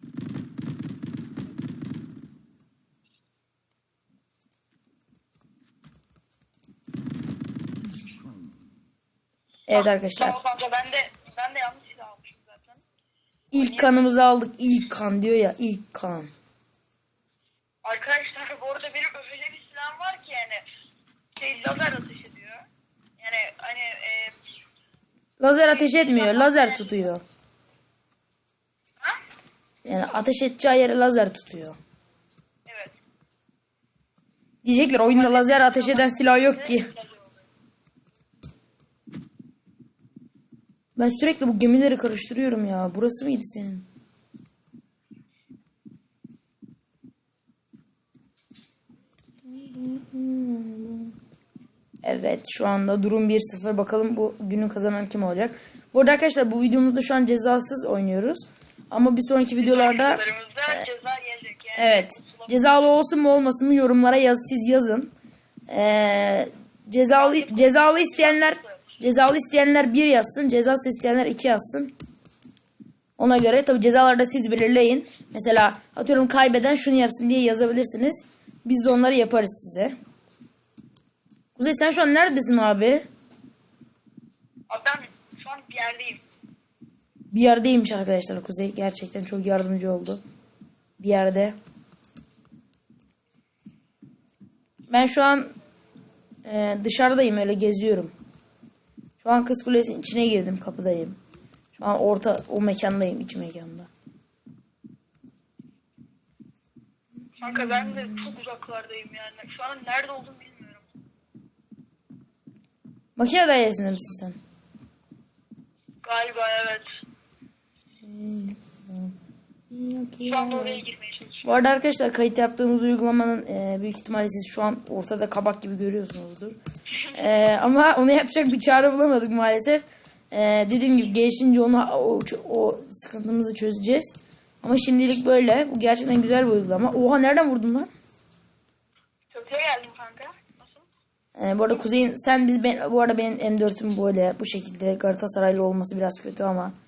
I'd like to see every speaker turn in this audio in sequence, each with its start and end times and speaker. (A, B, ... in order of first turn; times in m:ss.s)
0:09.7-0:10.4 A
0:09.7-0:12.8 B
0:13.5-0:14.1 B
0:13.5-0:16.3 A
0:17.8-0:20.6 B
0:21.3-0:22.6 B
0:23.2-0:24.4 B
0:25.4-0:27.2 A
0:25.6-0:27.1 B
0:29.8-0:31.8 A
0:32.6-0:33.0 B
0:34.6-0:36.9 A
0:35.0-0:37.5 B
0:41.0-0:43.9 A
0:49.4-0:51.1 A
0:52.0-1:00.8 A
0:59.6-1:02.6 B
1:01.8-1:05.1 A
1:05.7-1:11.9 A
1:07.1-1:08.9 B
1:13.2-1:19.9 A
1:21.6-1:23.0 A
1:24.7-1:26.2 B
1:27.3-1:30.2 A
1:31.0-1:31.6 A
1:34.9-1:35.5 A
1:36.4-1:38.1 A
1:39.2-1:41.2 A
1:41.8-1:43.9 A
1:47.4-1:50.9 B
1:47.4-1:48.3 A
1:53.2-1:54.4 A
1:56.0-1:56.9 B
1:58.0-1:59.1 A
1:59.7-2:00.8 A
2:00.2-2:01.6 B
2:01.4-2:06.6 A
2:07.0-2:07.2 B
2:07.1-2:17.9 A
2:19.3-2:20.9 B
2:21.4-2:26.7 A